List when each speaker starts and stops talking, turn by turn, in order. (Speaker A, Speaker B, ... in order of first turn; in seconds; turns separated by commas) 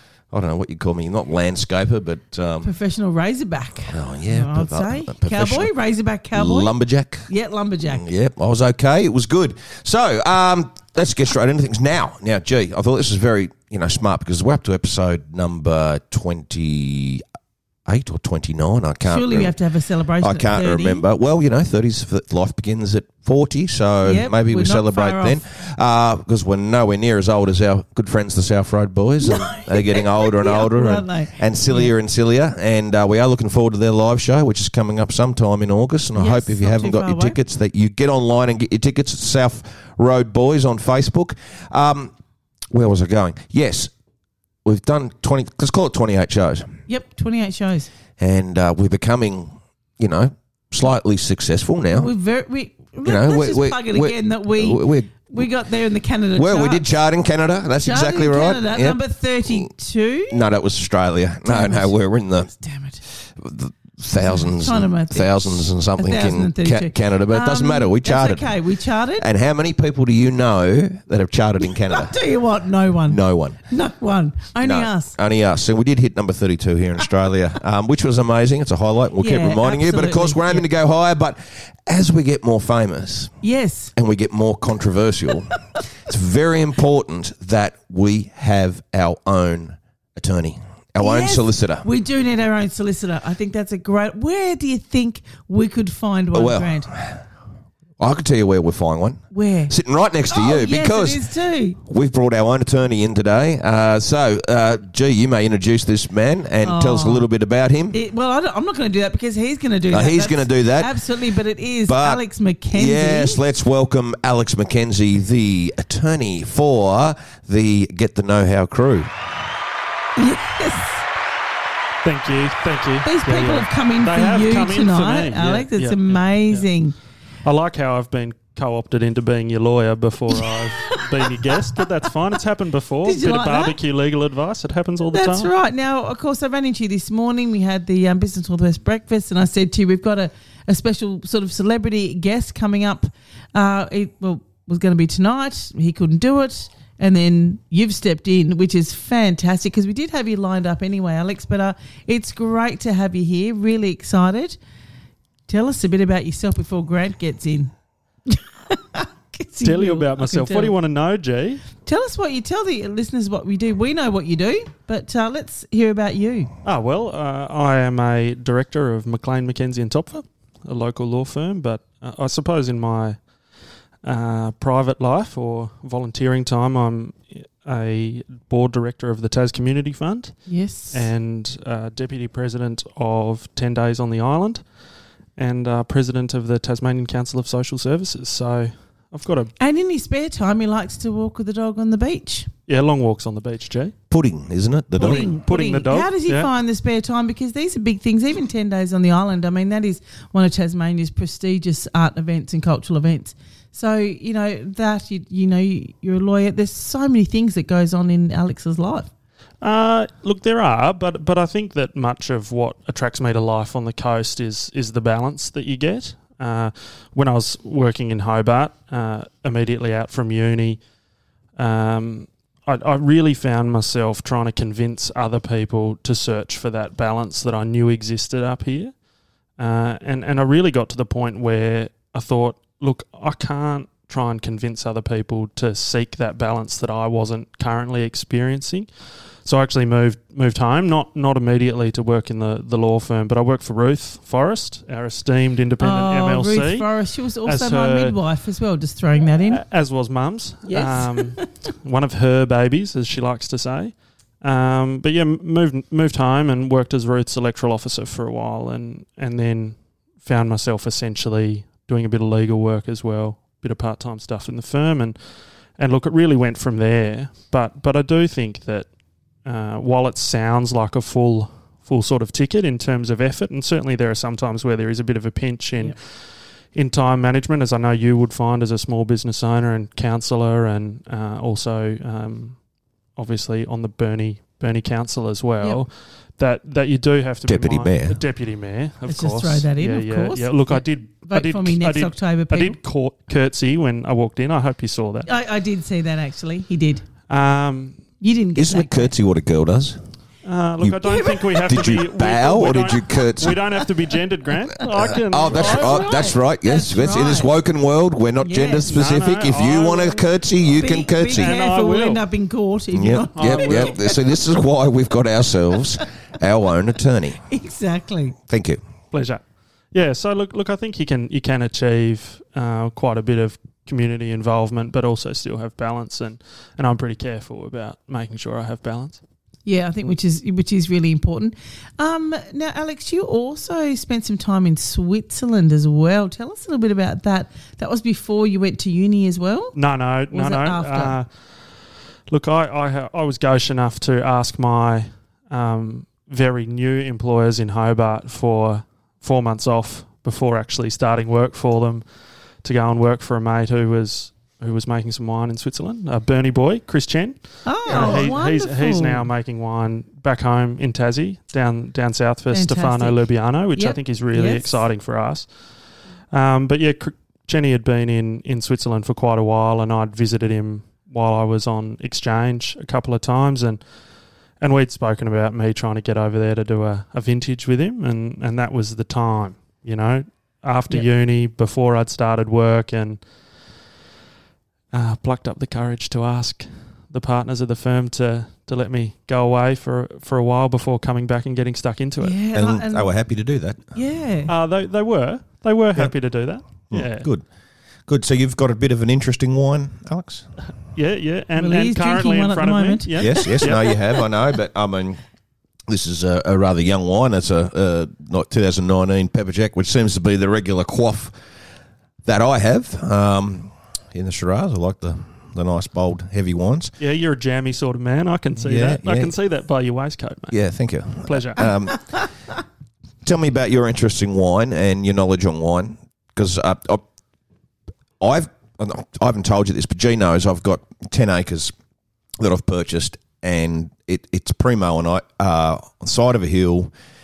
Speaker A: 0.3-2.7, Speaker B: 2.6-6.7, Speaker A: 3.9-5.7, Speaker A: 6.3-7.3, Speaker B: 7.3-8.0, Speaker A: 7.9-17.2, Speaker A: 17.9-19.5, Speaker B: 19.1-21.0, Speaker A: 20.2-42.1, Speaker B: 24.0-25.4, Speaker B: 29.2-31.9, Speaker B: 36.1-37.4, Speaker A: 42.7-43.9, Speaker A: 44.6-46.7, Speaker B: 46.9-47.9, Speaker A: 48.2-52.1, Speaker B: 51.9-56.8, Speaker A: 53.0-55.4, Speaker A: 56.4-59.7, Speaker B: 57.8-60.4, Speaker A: 60.3-62.5, Speaker B: 61.4-63.0, Speaker A: 63.1-68.5, Speaker B: 64.2-69.2, Speaker A: 69.2-72.1, Speaker B: 71.6-75.2, Speaker A: 73.1-73.6, Speaker A: 74.6-83.3, Speaker B: 79.2-80.6, Speaker B: 83.4-83.9, Speaker A: 84.0-91.8, Speaker B: 91.0-96.9, Speaker A: 96.3-97.2, Speaker A: 98.0-101.2, Speaker B: 99.3-99.7, Speaker B: 100.3-101.8, Speaker A: 101.8-108.0, Speaker B: 106.6-107.2, Speaker B: 107.9-113.4, Speaker A: 109.9-110.9, Speaker A: 111.9-119.2, Speaker B: 120.2-121.0, Speaker C: 122.0-126.6, Speaker B: 123.0-127.0, Speaker C: 127.4-135.5, Speaker B: 130.3-131.8, Speaker B: 133.0-133.8, Speaker B: 135.1-154.6, Speaker B: 155.5-157.7, Speaker B: 158.3-160.7, Speaker C: 159.6-161.6, Speaker B: 161.8-166.5, Speaker C: 166.6-173.2, Speaker C: 174.0-180.4, Speaker B: 180.5-181.1, Speaker C: 180.9-184.6, Speaker C: 185.4-189.5, Speaker B: 189.6-192.5, Speaker C: 192.7-193.9, Speaker A: 194.1-195.3, Speaker C: 195.0-196.5, Speaker B: 195.0-209.1, Speaker C: 209.6-220.8, Speaker C: 221.6-228.9, Speaker C: 229.6-238.9, Speaker C: 239.4-246.9, Speaker B: 245.8-249.6, Speaker C: 247.4-248.2, Speaker C: 249.3-265.1, Speaker B: 250.7-251.5, Speaker C: 265.8-268.9, Speaker C: 269.4-276.2, Speaker C: 276.7-282.6, Speaker C: 283.1-295.3, Speaker A: 287.4-288.2, Speaker B: 289.1-292.8, Speaker B: 295.2-297.0, Speaker C: 297.3-298.0, Speaker B: 298.2-299.1, Speaker A: 298.6-300.0, Speaker C: 300.4-306.1, Speaker B: 301.0-302.0, Speaker A: 301.6-303.6, Speaker A: 305.1-311.5, Speaker B: 305.5-307.5, Speaker B: 308.4-308.9, Speaker C: 308.8-310.2, Speaker B: 310.8-314.2, Speaker C: 311.3-312.2, Speaker A: 312.9-317.4, Speaker C: 313.4-314.0, Speaker B: 317.5-318.4, Speaker A: 318.5-318.8, Speaker C: 319.1-329.2, Speaker B: 329.6-339.7, Speaker C: 339.7-341.3, Speaker B: 340.3-341.1, Speaker C: 342.3-352.0, Speaker C: 352.6-365.5, Speaker B: 357.6-359.3, Speaker A: 357.8-358.3, Speaker B: 362.5-364.8, Speaker C: 366.3-373.8, Speaker C: 374.6-383.2, Speaker C: 384.9-392.4, Speaker B: 392.2-393.1, Speaker A: 392.5-393.8, Speaker B: 393.9-394.5, Speaker C: 394.5-397.3, Speaker A: 396.9-397.4, Speaker A: 398.1-400.5, Speaker C: 400.9-403.8, Speaker B: 401.6-403.6, Speaker A: 403.2-405.2, Speaker A: 405.9-411.3, Speaker A: 412.2-416.9, Speaker C: 417.0-420.6, Speaker A: 418.6-419.3, Speaker A: 420.5-422.0, Speaker C: 421.2-421.7, Speaker A: 423.2-427.0, Speaker A: 428.2-431.7, Speaker A: 432.4-436.9